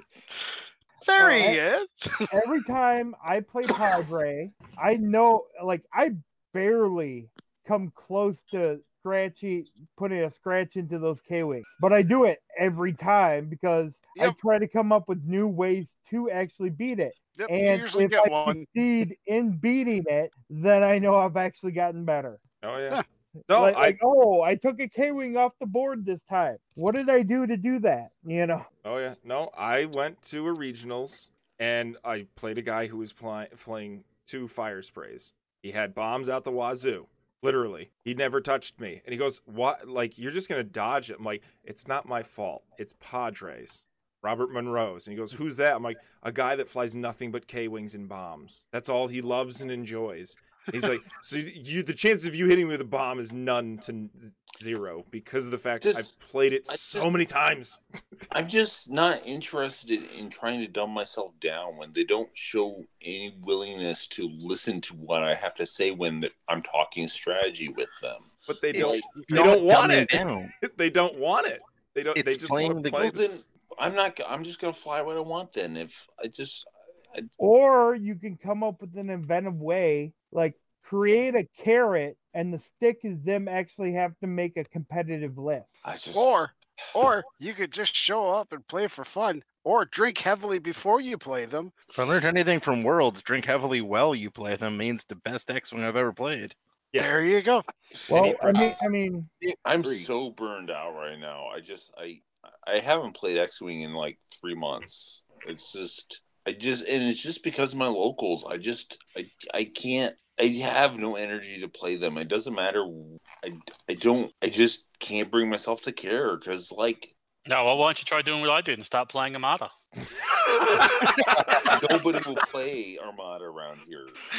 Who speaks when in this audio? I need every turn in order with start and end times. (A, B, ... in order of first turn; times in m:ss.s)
0:01.1-0:02.3 A
0:01.2-0:01.6 B
0:02.3-0:22.4 B
0:17.4-0:18.7 A
0:22.6-0:24.0 C
0:23.5-0:28.7 B
0:28.8-0:57.8 C
0:55.8-0:56.1 D
0:56.7-0:57.1 D
0:58.3-1:09.1 D
1:08.5-1:13.3 C
1:08.7-1:10.5 E
1:12.2-1:13.1 E
1:13.0-1:17.3 D
1:17.4-1:25.7 B
1:25.8-1:26.5 D
1:26.1-1:31.7 A
1:31.9-1:36.6 E
1:36.9-1:37.2 C
1:37.0-1:37.7 A
1:38.1-1:39.3 B
1:38.1-1:38.8 D
1:38.1-1:38.8 C
1:39.4-1:40.0 E
1:39.6-1:57.1 D
1:57.5-1:59.7 F
2:01.7-2:04.2 D